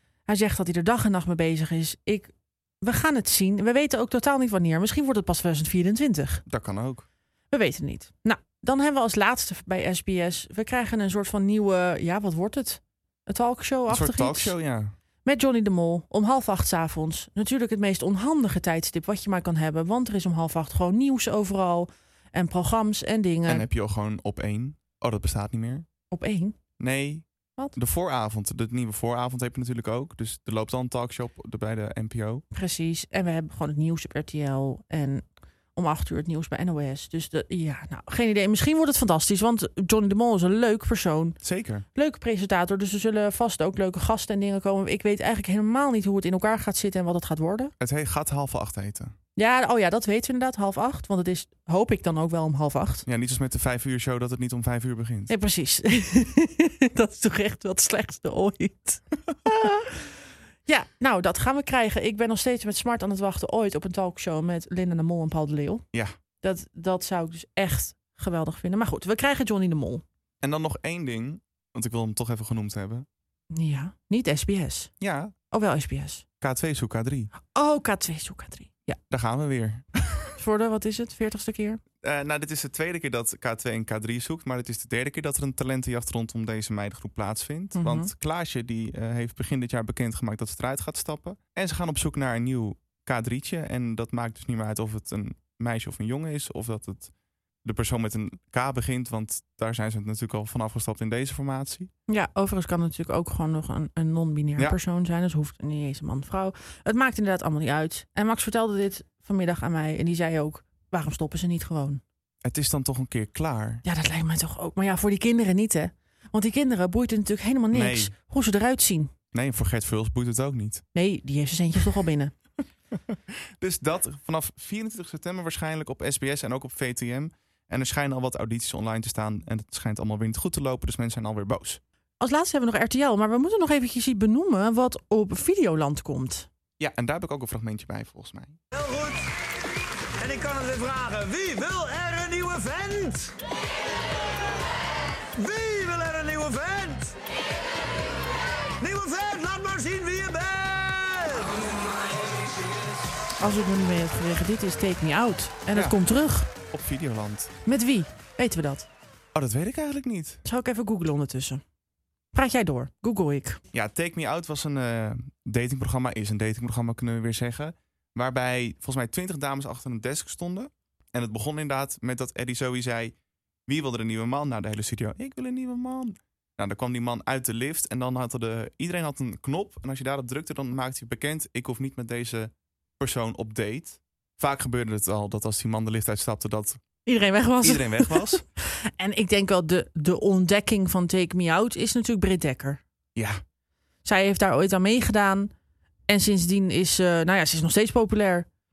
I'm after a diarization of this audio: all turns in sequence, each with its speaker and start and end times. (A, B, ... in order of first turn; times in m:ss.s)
0:00.3-0:06.4 A
0:06.5-0:07.0 B
0:07.5-0:14.5 A
0:13.9-0:15.0 B
0:15.2-0:23.7 A
0:23.5-0:25.9 B
0:26.1-0:26.6 A
0:26.8-0:32.4 B
0:32.5-0:41.4 A
0:41.4-0:41.9 B
0:42.0-0:47.7 A
0:47.8-0:49.1 B
0:49.4-0:53.0 A
0:53.0-0:55.3 B
0:55.3-1:00.1 A
1:00.7-1:05.8 A
1:06.4-1:10.0 A
1:10.4-1:13.0 B
1:13.5-1:14.9 A
1:15.0-1:15.3 B
1:15.5-1:16.2 A
1:16.4-1:17.3 B
1:17.5-1:19.0 A
1:19.1-1:20.4 B
1:20.4-1:21.8 A
1:22.0-1:37.1 B
1:27.7-1:28.1 A
1:37.6-1:41.9 B
1:42.1-1:52.0 A
1:52.4-1:53.8 B
1:53.8-1:59.1 A
1:57.7-1:58.1 B
1:59.3-2:00.8 B
2:00.9-2:02.3 A
2:03.1-2:11.8 B
2:12.2-2:16.5 A
2:16.8-2:18.6 B
2:18.7-2:19.3 C
2:20.1-2:23.4 C
2:25.3-2:27.2 C
2:28.8-2:31.7 C
2:33.4-2:36.5 A
2:35.7-2:36.0 B
2:36.7-2:37.5 B
2:37.7-2:38.9 A
2:39.3-2:40.4 B
2:40.4-2:41.6 A
2:42.3-2:43.6 A
2:43.7-2:53.1 B
2:53.7-3:06.8 B
3:07.0-3:12.8 A
3:07.6-3:08.4 B
3:14.0-3:15.5 A
3:16.1-3:18.5 A